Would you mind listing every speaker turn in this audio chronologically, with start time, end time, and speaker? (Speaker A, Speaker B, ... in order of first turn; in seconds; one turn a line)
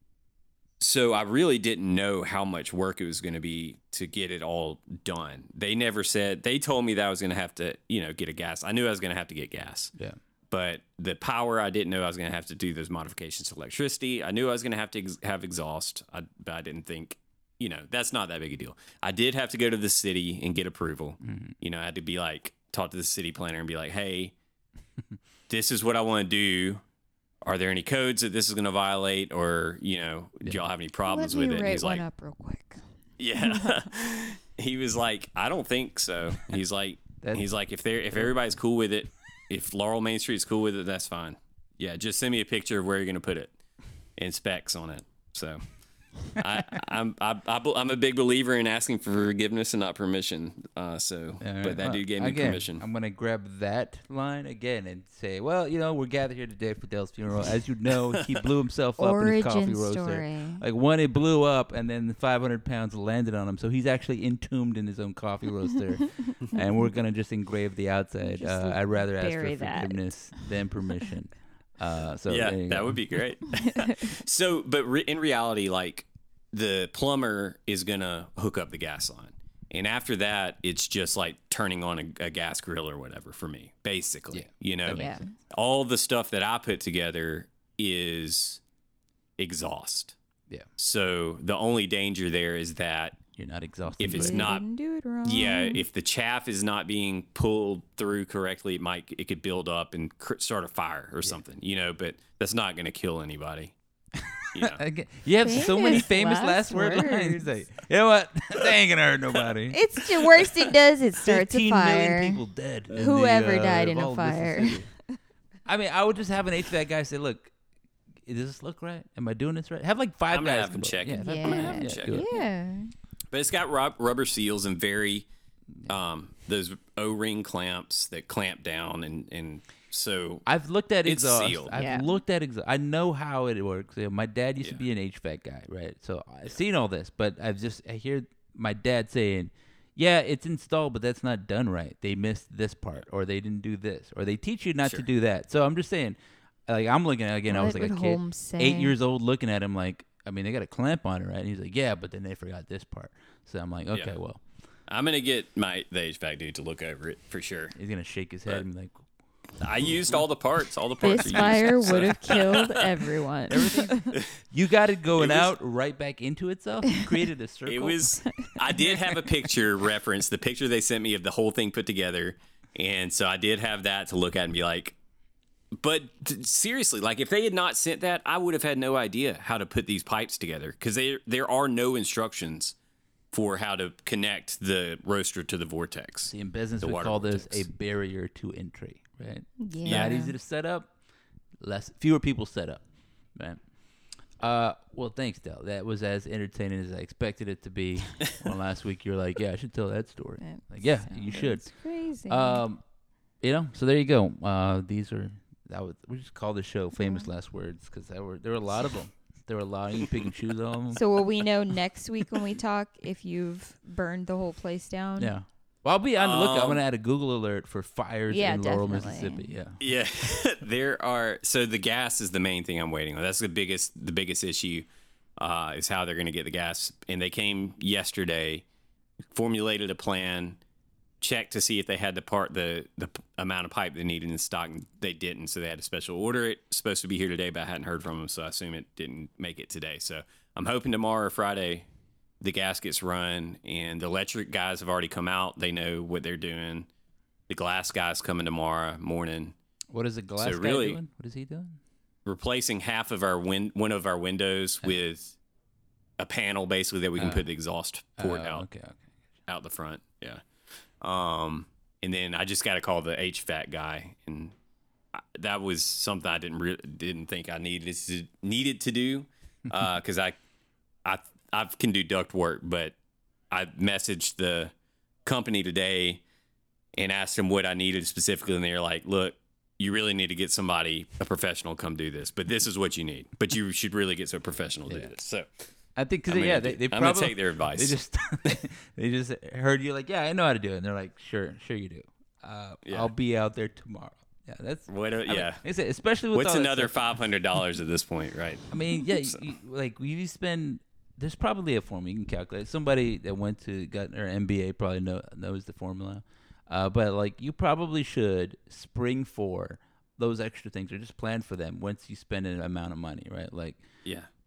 Speaker A: 0.8-9.9
Speaker A: 10.5-24.3
Speaker B: 21.2-21.5
Speaker A: 25.5-26.8
Speaker A: 27.4-32.0
Speaker C: 31.0-32.8
Speaker A: 33.2-43.5
Speaker C: 33.4-33.8
Speaker B: 37.2-37.5
Speaker A: 44.1-45.6
Speaker A: 46.2-52.8
Speaker B: 51.4-73.0
Speaker A: 58.1-58.4
Speaker C: 59.0-60.6
Speaker C: 66.4-66.9
Speaker C: 68.2-70.5
Speaker A: 72.3-88.6
Speaker C: 73.7-74.1
Speaker B: 84.3-85.2
Speaker C: 84.9-85.3
Speaker A: 89.4-90.1
Speaker A: 90.8-93.2
Speaker B: 93.3-94.5
Speaker A: 94.0-94.6
Speaker C: 94.0-95.8
Speaker A: 95.2-103.7
Speaker B: 104.2-110.0
Speaker A: 104.5-104.8
Speaker C: 105.4-107.5
Speaker C: 109.7-112.4
Speaker B: 111.2-114.9
Speaker C: 112.9-115.0
Speaker B: 115.7-117.5
Speaker B: 118.2-122.4
Speaker A: 120.3-122.3
Speaker C: 121.2-122.9
Speaker A: 123.3-125.3
Speaker A: 125.9-130.4
Speaker B: 130.4-154.4
Speaker A: 131.0-131.8
Speaker C: 131.7-132.1
Speaker C: 147.5-148.9
Speaker A: 154.9-157.8
Speaker B: 157.8-159.1
Speaker A: 159.6-163.1
Speaker C: 161.0-164.2
Speaker B: 163.5-168.1
Speaker A: 165.2-165.5
Speaker A: 167.7-174.9
Speaker C: 168.2-169.1
Speaker A: 175.7-182.7
Speaker A: 183.3-187.7
Speaker B: 186.3-190.9
Speaker C: 189.6-190.3
Speaker A: 189.8-190.1
Speaker B: 191.6-193.6
Speaker B: 194.4-201.7
Speaker C: 200.4-202.6
Speaker B: 202.3-202.8
Speaker B: 203.4-211.2
Speaker C: 207.0-207.3
Speaker C: 210.9-215.3
Speaker B: 215.2-219.8
Speaker A: 216.2-216.8
Speaker C: 218.3-219.5
Speaker A: 219.8-228.6
Speaker A: 229.3-230.6
Speaker A: 231.2-241.9
Speaker A: 242.4-246.9
Speaker A: 247.5-249.5
Speaker B: 249.9-251.8
Speaker A: 250.4-251.0
Speaker A: 252.2-255.3
Speaker A: 256.2-258.6
Speaker B: 257.2-257.5
Speaker B: 258.2-259.1
Speaker A: 259.5-260.4
Speaker A: 261.0-264.5
Speaker A: 265.1-270.4
Speaker A: 271.0-272.9
Speaker A: 273.5-274.7
Speaker A: 275.2-276.2
Speaker A: 276.9-285.6
Speaker B: 284.9-285.1
Speaker B: 285.9-296.9
Speaker A: 286.3-288.6
Speaker A: 292.8-293.1
Speaker A: 294.9-295.6
Speaker A: 296.3-299.4
Speaker B: 298.7-313.8